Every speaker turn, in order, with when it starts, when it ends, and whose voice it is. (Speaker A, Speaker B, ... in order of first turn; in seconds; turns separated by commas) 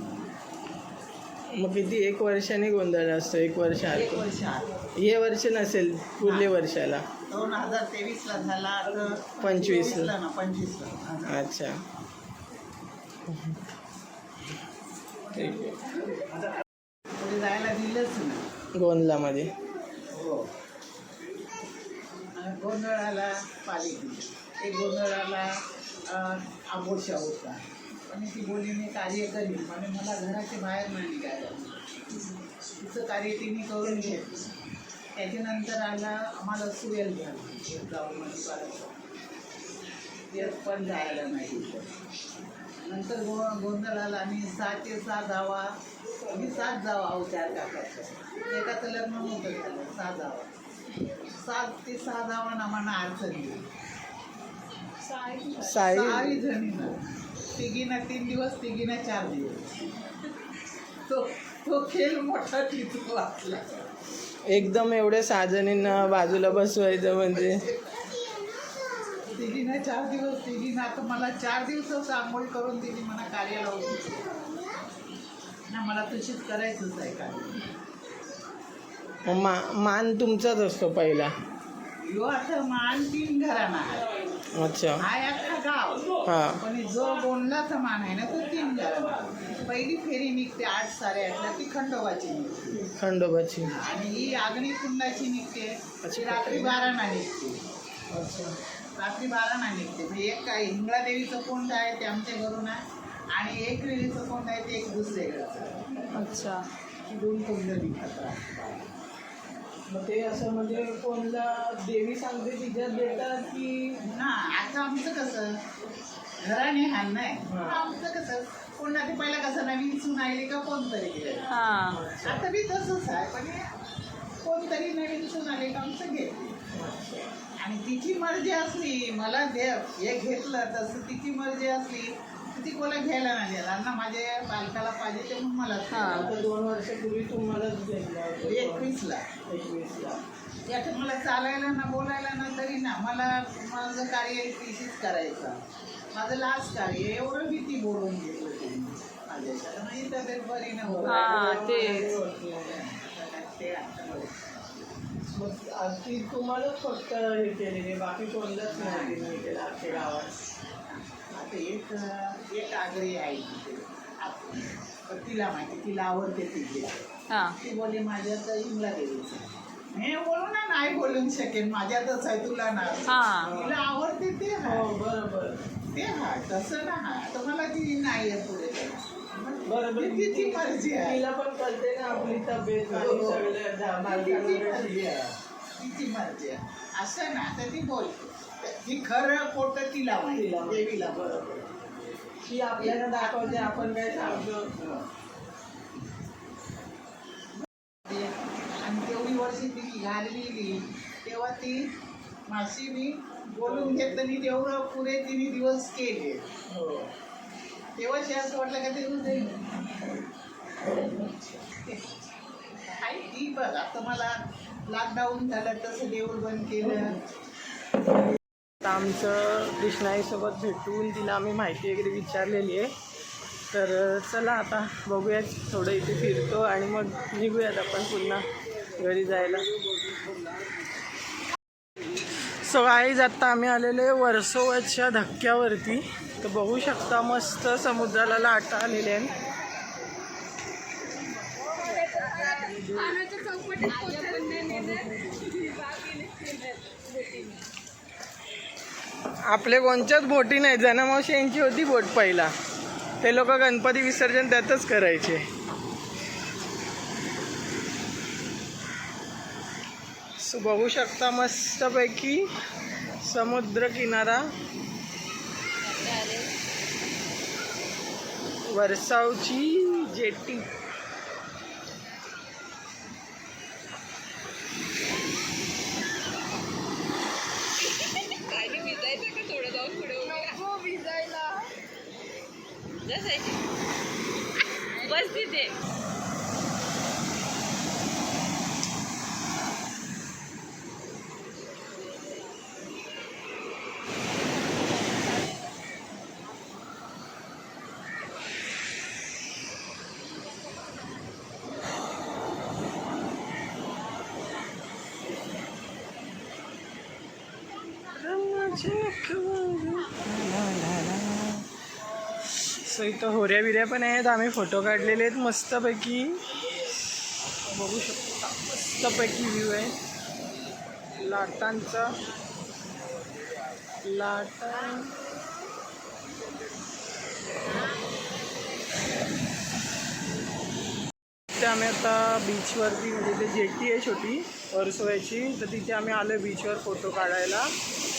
Speaker A: 1.6-4.2, Speaker B: 3.9-4.8, Speaker A: 5.0-7.1, Speaker B: 6.2-6.5, Speaker B: 7.3-11.4, Speaker A: 9.4-10.1, Speaker A: 11.3-11.8, Speaker A: 13.3-13.6, Speaker A: 15.3-15.8, Speaker B: 17.1-18.4, Speaker A: 18.8-19.5, Speaker B: 20.1-20.5, Speaker B: 22.3-25.5, Speaker B: 26.1-34.5, Speaker B: 35.1-39.0, Speaker B: 40.3-41.9, Speaker B: 42.8-45.7, Speaker B: 46.2-50.5, Speaker B: 51.1-53.6, Speaker A: 55.2-56.4, Speaker B: 55.6-57.0, Speaker B: 57.5-59.8, Speaker B: 61.1-63.8, Speaker A: 64.5-67.6, Speaker B: 69.3-74.4, Speaker B: 75.7-77.7, Speaker A: 79.2-81.3, Speaker B: 82.0-84.1, Speaker A: 84.6-85.0, Speaker B: 85.0-92.9, Speaker A: 86.2-86.6, Speaker A: 92.9-93.8, Speaker B: 93.7-97.6, Speaker A: 96.0-96.8, Speaker A: 98.1-98.6, Speaker B: 99.0-102.8, Speaker B: 103.3-106.1, Speaker C: 106.1-106.7, Speaker B: 107.0-108.9, Speaker A: 109.9-114.0, Speaker B: 114.0-115.6, Speaker B: 116.4-123.8, Speaker A: 117.5-117.9, Speaker C: 121.5-122.0, Speaker A: 121.9-122.5, Speaker B: 124.4-126.6, Speaker A: 126.7-127.3, Speaker B: 127.6-136.4, Speaker C: 135.9-136.2, Speaker A: 136.0-138.9, Speaker B: 138.4-139.3, Speaker A: 139.5-140.2, Speaker B: 140.7-145.6, Speaker B: 146.1-154.8, Speaker A: 150.8-152.8, Speaker C: 151.1-152.2, Speaker A: 155.3-160.3, Speaker B: 158.7-160.1, Speaker B: 160.9-174.9, Speaker C: 167.3-167.6, Speaker C: 173.1-173.5, Speaker A: 173.4-173.8, Speaker A: 174.6-175.6, Speaker B: 175.9-181.2, Speaker A: 179.7-185.1, Speaker B: 182.9-191.4, Speaker A: 190.3-191.7, Speaker A: 192.4-194.7, Speaker B: 192.8-195.1, Speaker B: 198.0-201.9, Speaker B: 202.5-206.5, Speaker A: 203.6-204.2, Speaker A: 206.7-207.1, Speaker B: 208.0-209.7, Speaker B: 211.7-212.2, Speaker B: 212.8-217.2, Speaker A: 218.8-222.9, Speaker A: 223.7-228.4, Speaker A: 229.0-229.7, Speaker A: 232.6-239.3, Speaker C: 241.7-247.6, Speaker A: 244.8-245.1, Speaker A: 249.5-252.5, Speaker A: 253.2-255.5, Speaker A: 260.4-262.5, Speaker A: 263.2-264.4, Speaker C: 265.9-266.5, Speaker A: 268.7-270.7, Speaker C: 277.9-281.7, Speaker C: 283.0-283.6, Speaker C: 284.9-285.7, Speaker A: 308.1-311.7, Speaker A: 312.4-316.9, Speaker A: 317.7-319.9, Speaker A: 321.1-322.1, Speaker A: 324.0-325.2, Speaker A: 331.5-337.7